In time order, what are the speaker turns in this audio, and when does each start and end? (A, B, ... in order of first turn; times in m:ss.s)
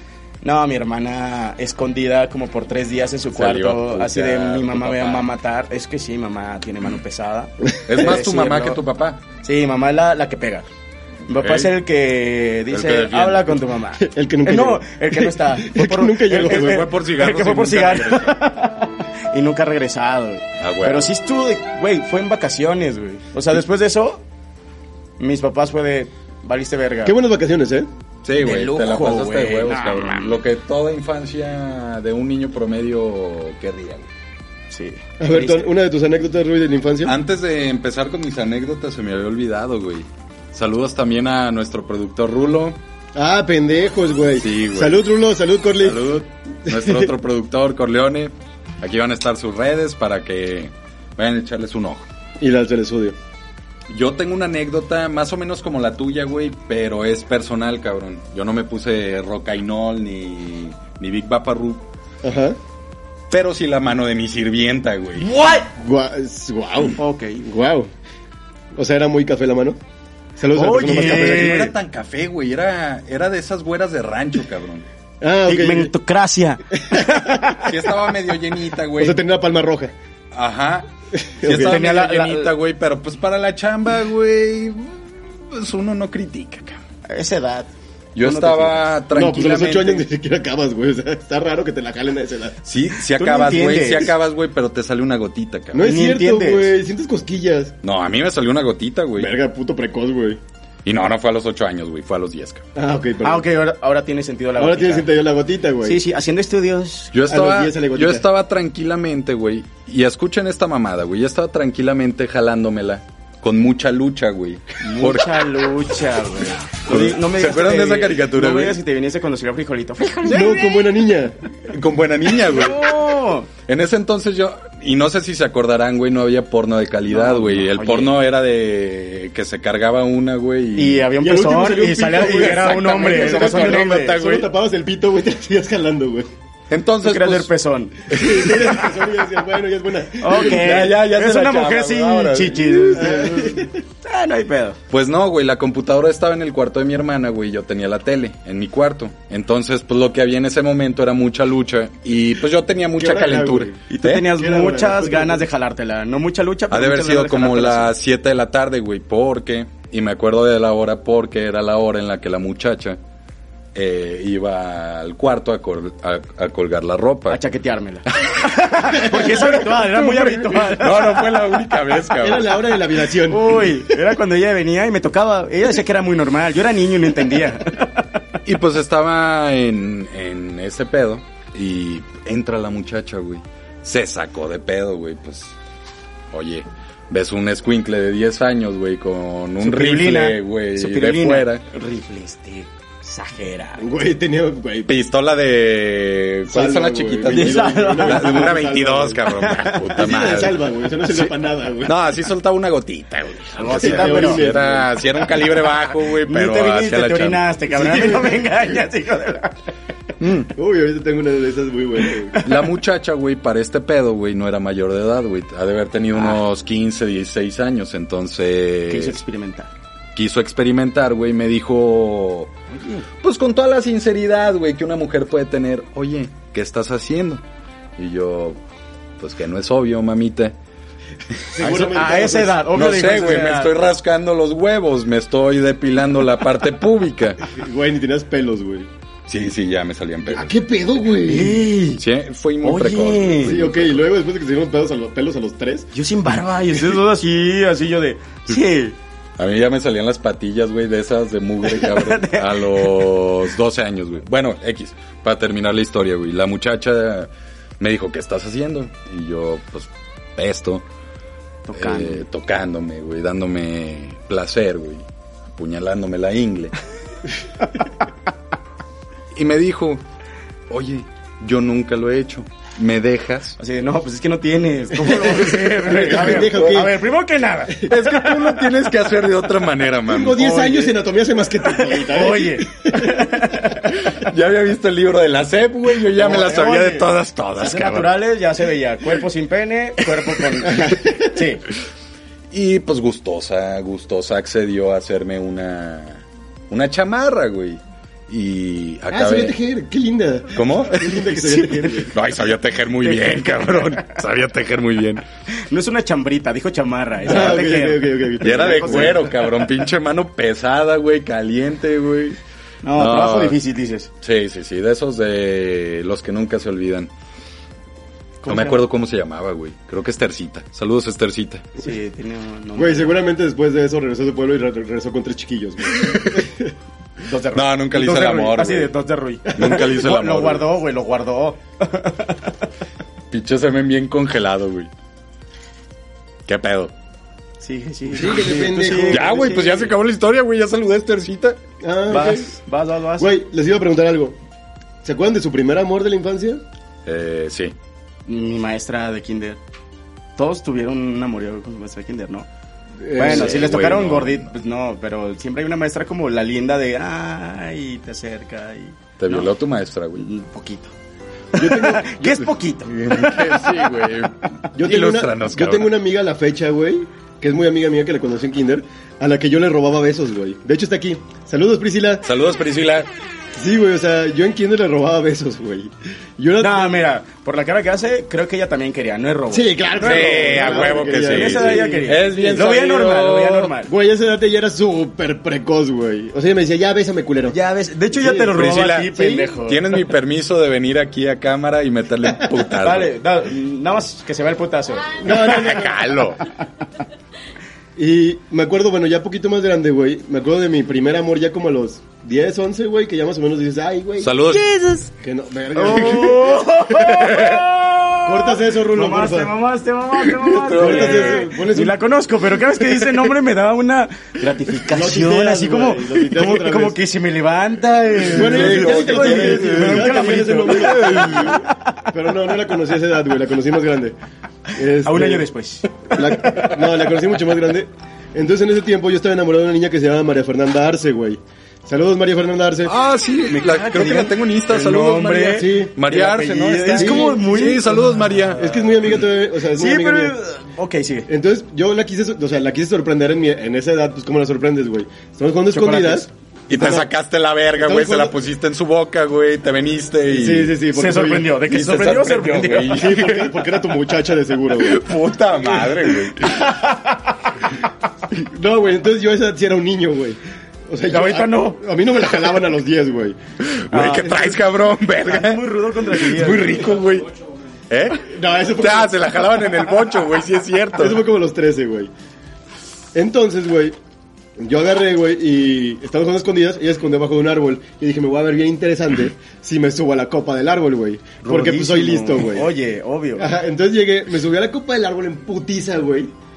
0:00.4-0:08.8 A
0:03.3-0:05.3 B
0:07.9-0:09.2 B
0:09.4-0:10.7 A
0:11.3-0:24.2 A
0:11.3-0:11.7 B
0:12.7-0:13.6 B
0:14.0-0:16.9 C
0:16.3-0:18.4 B
0:20.6-0:21.1 B
0:25.2-0:27.2 A
0:27.0-0:27.9 C
0:28.2-0:34.1 B
0:28.4-0:30.4 A
0:34.7-0:35.7 A
0:35.2-0:37.1 C
0:37.0-0:42.8 B
0:43.2-0:46.1 C
0:44.4-0:45.0 B
0:45.8-0:52.1 B
0:46.7-0:47.1 C
0:52.4-0:53.2 C
0:53.9-1:01.8 B
1:02.2-1:02.6 C
1:03.3-1:05.3 B
1:05.6-1:07.9 C
1:07.0-1:07.4 A
1:08.8-1:09.8 C
1:10.4-1:11.6 C
1:10.5-1:11.7 A
1:10.9-1:14.9 B
1:15.2-1:15.9 C
1:15.5-1:17.7 A
1:16.8-1:17.6 C
1:17.6-1:19.2 B
1:19.0-1:19.9 C
1:20.3-1:20.9 B
1:21.2-1:21.9 C
1:21.4-1:26.8 B
1:21.5-1:22.5 A
1:27.1-1:28.9 A
1:28.2-1:30.1 B
1:29.1-1:32.6 C
1:32.6-1:35.9 B
1:33.1-1:34.1 A
1:35.7-1:37.8 C
1:35.8-1:36.8 A
1:37.8-1:39.4 B
1:39.2-1:40.4 C
1:40.8-1:42.6 B
1:42.8-1:43.4 C
1:43.2-1:45.1 A
1:44.6-1:46.0 C
1:45.8-1:47.2 A
1:47.1-1:55.5 B
1:47.3-1:48.3 C
1:54.8-2:00.8 A
1:56.9-1:58.8 B
2:00.2-2:01.4 C
2:01.7-2:03.0 B
2:02.4-2:03.5 A
2:03.6-2:11.1 B
2:07.1-2:08.2 A
2:10.8-2:14.2 A
2:11.2-2:16.3 C
2:12.4-2:14.5 B
2:16.7-2:17.5 B
2:17.0-2:18.2 A
2:18.1-2:18.8 B
2:18.1-2:20.9 C
2:20.2-2:24.8 A
2:20.3-2:23.1 B
2:22.9-2:23.8 C
2:24.9-2:34.2 B
2:33.0-2:35.4 C
2:33.9-2:37.9 A
2:36.7-2:43.0 B
2:43.8-2:47.4 B
2:47.3-2:51.4 A
2:49.0-2:50.4 C
2:50.6-2:52.6 B
2:52.1-2:53.8 C
2:53.2-2:58.2 A
2:58.4-3:05.6 B
3:06.3-3:11.6 B
3:09.6-3:13.9 A
3:13.8-3:14.9 C
3:14.9-3:21.3 B
3:16.5-3:19.2 C
3:17.3-3:18.6 A
3:19.3-3:19.9 A
3:19.9-3:21.9 C
3:21.8-3:27.4 B
3:23.6-3:24.4 A
3:23.7-3:24.9 C
3:26.1-3:29.6 A
3:27.8-3:28.4 C
3:30.4-3:32.4 C
3:32.3-3:32.6 A
3:32.4-3:39.2 B
3:36.2-3:36.4 A
3:38.9-3:39.7 A
3:40.2-3:42.5 B
3:42.7-3:43.1 A
3:43.2-3:47.4 B
3:48.0-3:48.6 B
3:49.2-3:50.6 B
3:51.6-3:53.5 C
3:51.6-3:53.8 A
3:51.6-3:52.0 B
3:52.7-3:57.4 B
3:57.5-3:58.9 C
3:59.3-4:00.6 B
4:00.3-4:01.7 C
4:01.2-4:02.0 A
4:02.0-4:04.1 B
4:02.6-4:03.6 A
4:03.4-4:05.9 C
4:05.9-4:09.0 A
4:09.4-4:20.8 B
4:11.6-4:12.9 A
4:21.7-4:22.2 A
4:21.8-4:26.7 B
4:29.4-4:30.0 B
4:30.7-4:33.6 B
4:33.6-4:38.5 A
4:35.1-4:37.0 C
4:36.1-4:36.8 B
4:37.9-4:40.4 B
4:40.0-4:43.4 C
4:40.4-4:41.0 A
4:41.7-4:43.9 A
4:44.0-4:48.2 B
4:46.1-4:51.6 A
4:50.7-4:51.4 C
4:52.5-4:59.6 B
4:59.1-5:02.1 C
5:00.5-5:01.3 B
5:01.2-5:02.1 A
5:02.1-5:05.2 B
5:03.1-5:04.1 A
5:05.5-5:09.7 A
5:07.2-5:09.3 C
5:08.4-5:12.4 B
5:12.8-5:14.1 A
5:12.9-5:13.6 B
5:14.2-5:17.1 B
5:18.4-5:18.8 A
5:18.5-5:21.6 B
5:21.8-5:23.2 A
5:22.8-5:26.7 C
5:27.2-5:32.5 A
5:27.5-5:28.9 B
5:29.6-5:30.7 B
5:33.3-5:34.9 B
5:36.5-5:36.9 B
5:37.6-5:39.9 A
5:38.1-5:39.5 C
5:39.1-5:41.6 B
5:41.8-5:42.5 C
5:42.1-5:43.3 A
5:43.2-5:44.4 C
5:45.0-5:46.6 C
5:47.1-5:47.8 B
5:48.3-5:49.6 A
5:50.4-5:52.5 A
5:53.0-5:53.7 C
5:53.1-5:59.5 A
5:53.2-5:54.5 B
5:59.2-6:00.3 B
6:00.2-6:00.9 A
6:01.5-6:03.9 A
6:01.6-6:02.5 C
6:02.9-6:05.9 B
6:04.8-6:12.3 C
6:12.2-6:13.1 B
6:13.6-6:17.0 C
6:16.6-6:23.9 A
6:19.5-6:22.4 C
6:20.0-6:23.7 B
6:23.9-6:27.6 C
6:27.5-6:30.0 A
6:28.1-6:28.6 C
6:28.5-6:33.1 B
6:29.2-6:29.4 C
6:32.8-6:35.8 A
6:35.2-6:36.0 C
6:35.3-6:36.4 B
6:38.0-6:44.3 C
6:44.2-6:44.8 B
6:44.7-6:45.1 A
6:45.2-6:47.6 C
6:45.8-7:02.0 A
6:48.2-6:49.5 C
6:50.4-6:51.4 B
6:50.5-6:52.0 C
6:54.9-6:57.0 C
6:58.3-7:01.6 B
6:58.3-7:04.2 C
7:04.7-7:05.5 C
7:05.0-7:06.9 A
7:06.0-7:12.9 C
7:12.9-7:18.7 B
7:13.5-7:18.8 A
7:15.6-7:15.9 C
7:17.0-7:17.4 C
7:18.6-7:20.4 C
7:19.7-7:21.3 A
7:21.3-7:27.1 C
7:25.7-7:26.3 A
7:26.7-7:30.8 B
7:27.8-7:28.4 C
7:30.3-7:31.6 C
7:30.9-7:33.3 A
7:31.6-7:33.5 B
7:32.9-7:35.0 C
7:34.7-7:36.7 B
7:36.4-7:37.3 A
7:38.3-7:43.4 C
7:41.1-7:41.8 A
7:43.6-7:47.3 B
7:43.9-7:44.5 A
7:44.0-7:44.6 C
7:45.2-7:46.9 A
7:47.9-7:51.3 B
7:48.2-7:49.4 C
7:51.0-7:52.1 C
7:53.2-7:54.0 C
7:54.6-8:02.7 C
8:01.4-8:03.5 A
8:03.4-8:06.3 C